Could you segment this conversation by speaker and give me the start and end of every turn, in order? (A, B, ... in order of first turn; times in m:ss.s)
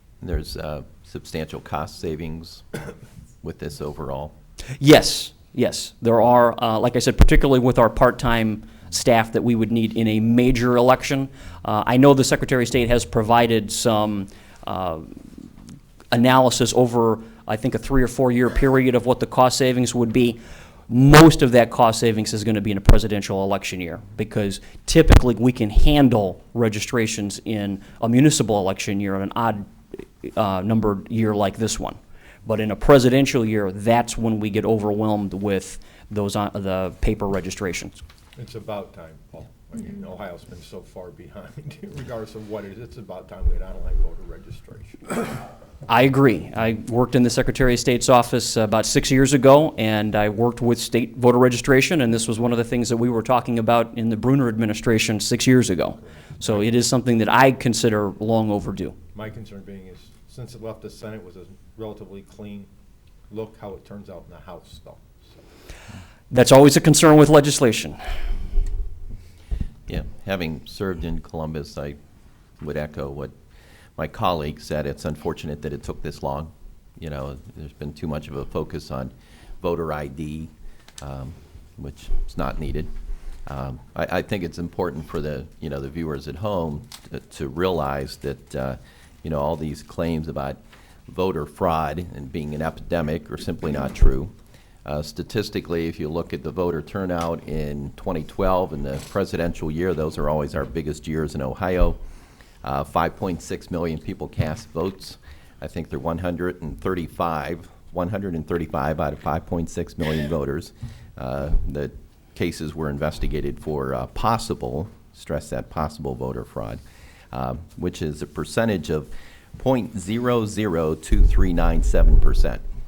0:00.2-0:02.7 A
0:03.4-0:04.3 A
0:04.8-0:15.5 B
0:16.1-0:38.0 B
0:38.3-0:45.4 C
0:45.9-0:58.9 B
0:56.0-0:56.5 C
0:59.1-1:02.7 C
1:03.3-1:05.5 C
1:06.3-1:08.0 B
1:09.9-1:12.0 A
1:12.6-1:13.3 A
1:14.0-1:22.9 A
1:23.5-1:34.3 A
1:34.8-1:42.0 A
1:42.6-1:56.8 A
1:57.3-2:02.6 A